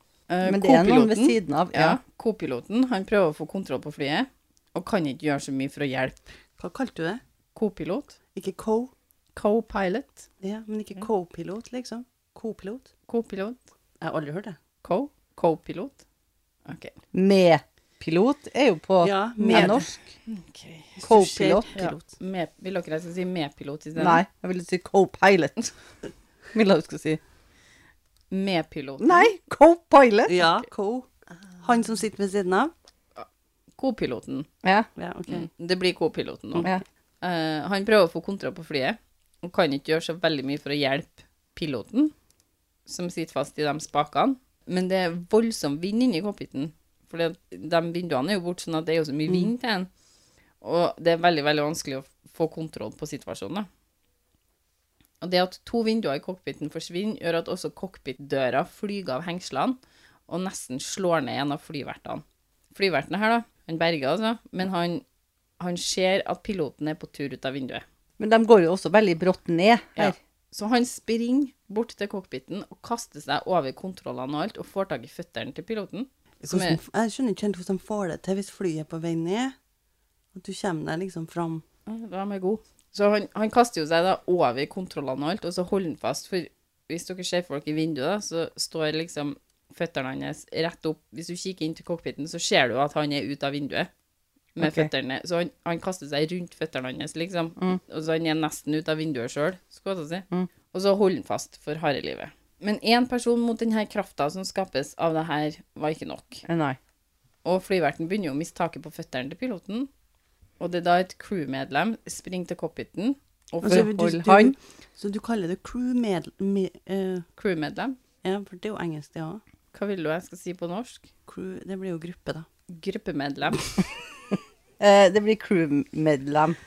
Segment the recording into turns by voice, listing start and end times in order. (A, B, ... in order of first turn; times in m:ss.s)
0:00.3-0:06.2 A
0:00.4-0:02.0 B
0:06.6-0:07.2 C
0:07.5-0:08.2 A
0:08.3-0:08.9 C
0:09.3-0:10.2 A
0:10.4-0:12.9 C
0:13.1-0:13.6 A
0:14.0-0:14.6 C
0:14.8-0:16.0 A
0:16.6-0:17.0 A
0:17.1-0:19.9 B
0:19.0-0:20.0 C
0:19.5-0:24.2 A
0:21.0-0:21.7 B
0:21.0-0:22.0 C
0:24.0-0:25.7 B
0:26.5-0:27.2 B
0:28.3-0:29.3 A
0:29.0-0:30.3 B
0:30.3-0:31.1 C
0:31.6-0:32.7 C
0:33.8-0:34.5 A
0:34.6-0:34.9 B
0:35.0-0:35.5 C
0:35.3-0:36.7 A
0:37.2-0:42.1 A
0:42.9-0:49.9 A
0:50.6-0:53.7 A
0:55.2-0:59.8 A
1:00.3-1:05.0 A
1:05.6-1:07.8 A
1:08.2-1:10.2 B
1:10.0-1:16.8 A
1:16.4-1:19.5 C
1:20.3-1:21.6 C
1:21.9-1:33.9 A
1:34.6-1:46.4 A
1:34.6-1:34.9 B
1:46.4-1:46.8 B
1:47.4-1:49.9 A
1:50.6-1:53.9 A
1:53.6-1:57.3 C
1:53.6-1:54.5 B
1:57.4-1:58.0 A
1:58.2-1:59.4 C
1:59.7-2:01.1 A
2:01.3-2:02.4 C
2:02.7-2:03.6 A
2:04.8-2:06.6 B